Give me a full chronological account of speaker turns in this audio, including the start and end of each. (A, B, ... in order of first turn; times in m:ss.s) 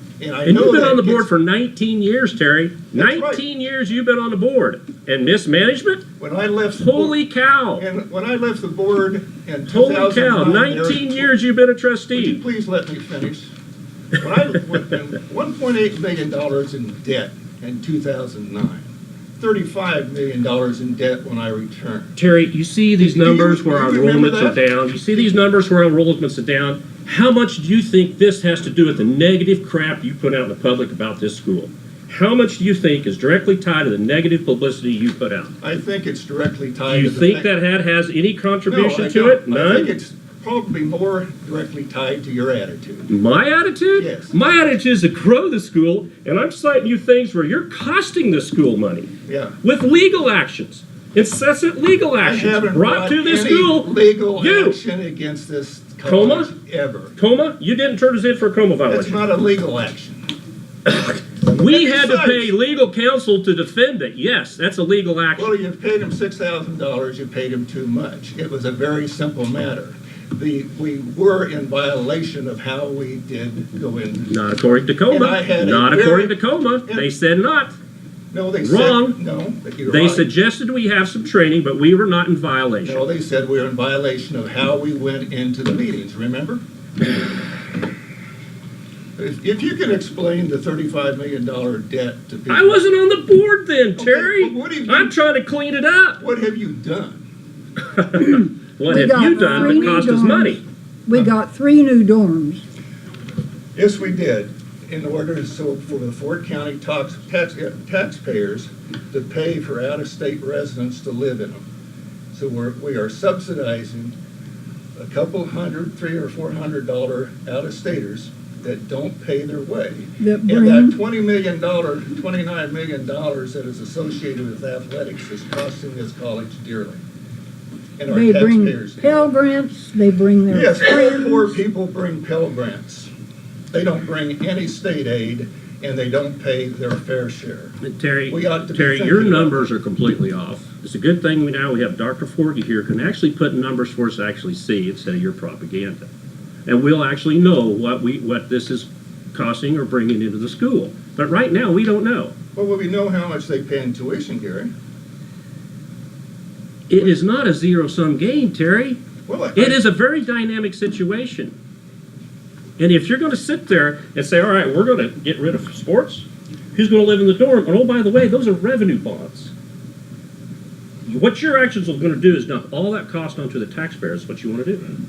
0:00.2-0:01.3 A
0:00.4-0:06.0 B
0:02.9-0:03.4 A
0:06.2-0:07.2 A
0:06.8-0:07.8 B
0:07.8-0:11.3 A
0:09.7-0:12.4 B
0:12.1-0:13.5 A
0:14.2-0:22.2 A
0:22.2-0:35.6 B
0:23.0-0:25.3 A
0:35.6-0:37.5 A
0:36.9-0:39.9 B
0:38.7-0:43.1 A
0:43.1-0:49.1 B
0:44.0-0:44.3 A
0:49.3-0:49.6 A
0:49.6-0:54.8 B
0:52.2-0:57.1 A
0:56.0-0:56.5 B
0:57.2-0:59.2 B
0:58.9-1:00.2 A
1:00.8-1:05.5 B
1:01.4-1:02.5 A
1:05.4-1:14.3 A
1:14.3-1:17.8 B
1:15.1-1:17.1 A
1:18.3-1:20.3 A
1:18.6-1:19.2 B
1:19.8-1:23.1 B
1:22.8-1:26.6 A
1:29.2-1:32.8 A
1:32.5-1:36.2 B
1:34.0-1:35.1 A
1:36.2-1:37.2 A
1:38.0-1:40.6 B
1:38.4-1:42.6 C
1:43.8-1:51.6 A
1:52.3-1:54.2 A
1:55.0-2:07.0 A
2:00.2-2:01.0 C
2:08.0-2:09.3 A
2:08.1-2:11.6 C
2:10.5-2:13.1 A
2:13.7-2:17.7 A
2:17.8-2:26.1 B
2:18.3-2:19.7 A
2:26.6-2:32.3 B
2:32.5-2:34.7 A
2:36.9-2:39.0 B
2:39.3-2:39.8 A
2:39.5-2:41.5 B
2:42.8-2:49.5 B
2:51.0-2:55.0 B